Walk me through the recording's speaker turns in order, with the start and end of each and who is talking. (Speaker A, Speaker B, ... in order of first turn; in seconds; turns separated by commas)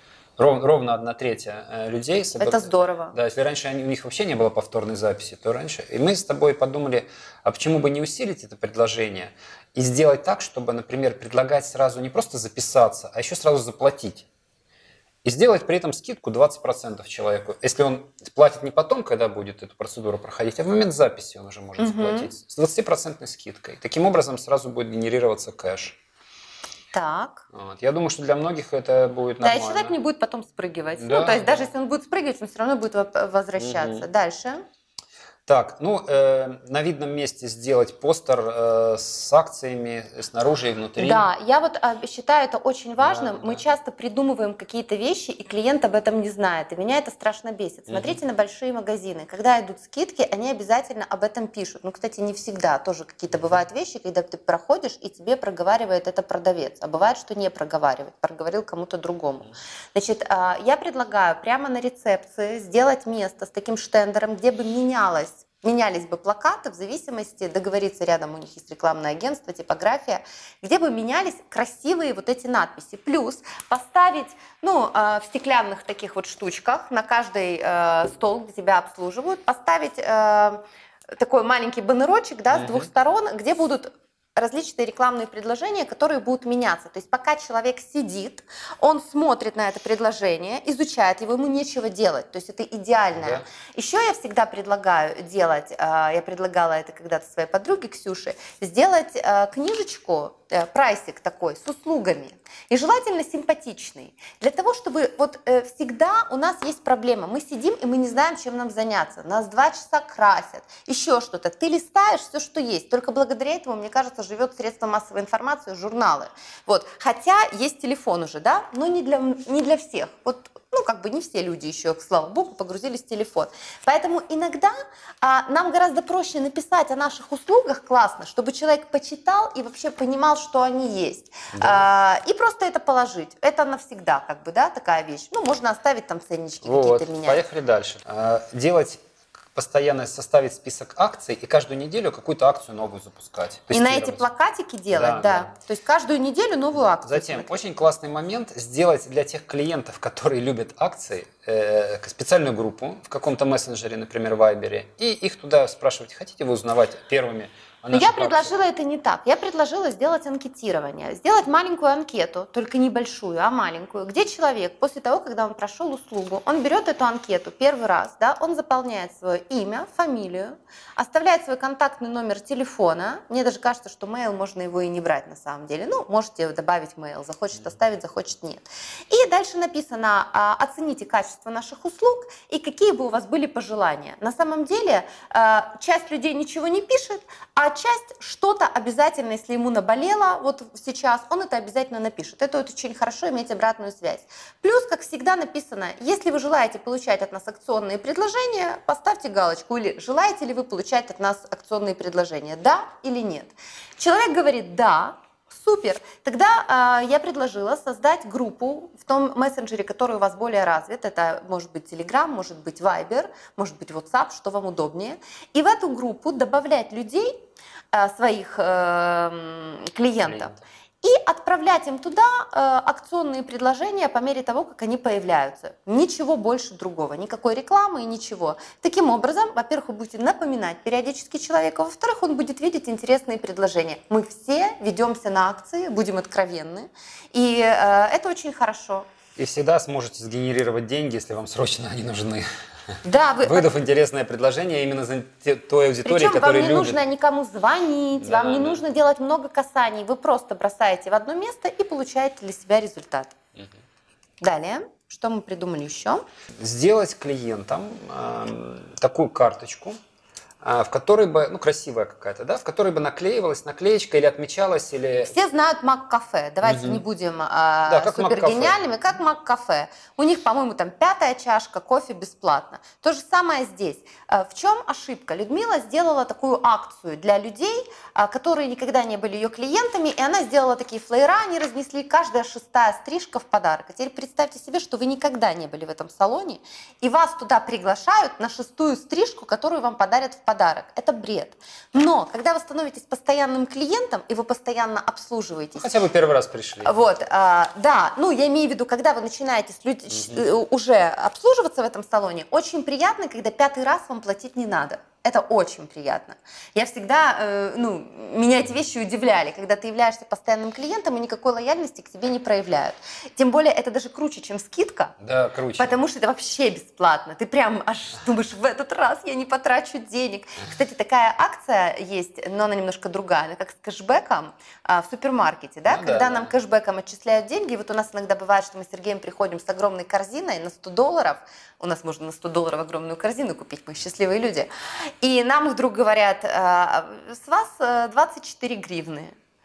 Speaker A: 0.4-14.3, Speaker B: 2.4-3.2, Speaker A: 15.2-26.0, Speaker B: 21.8-22.3, Speaker B: 26.9-27.4, Speaker A: 27.5-29.9, Speaker B: 29.4-34.6, Speaker A: 31.0-31.7, Speaker A: 33.6-34.1, Speaker A: 35.5-41.2, Speaker B: 41.0-80.6, Speaker A: 43.0-43.6, Speaker A: 47.9-48.2, Speaker A: 53.3-53.6, Speaker B: 81.1-137.4, Speaker A: 82.5-82.9, Speaker A: 93.2-93.5, Speaker A: 131.5-131.8, Speaker A: 136.6-139.0, Speaker A: 139.5-144.3, Speaker B: 143.7-147.5, Speaker A: 144.9-145.6, Speaker A: 146.8-158.5, Speaker B: 157.9-217.4, Speaker B: 217.9-239.1, Speaker A: 220.2-220.6, Speaker A: 239.4-242.5, Speaker B: 243.0-243.7, Speaker A: 243.4-247.0, Speaker B: 246.1-253.3, Speaker A: 248.2-248.8, Speaker B: 254.4-256.2, Speaker A: 256.6-260.0, Speaker A: 260.6-265.4, Speaker B: 265.2-295.9, Speaker A: 266.6-267.0, Speaker A: 267.9-268.8, Speaker A: 295.8-297.0, Speaker B: 296.9-315.1, Speaker A: 300.1-300.4, Speaker A: 315.2-316.0, Speaker B: 315.8-334.7, Speaker A: 325.9-326.5, Speaker B: 335.2-339.3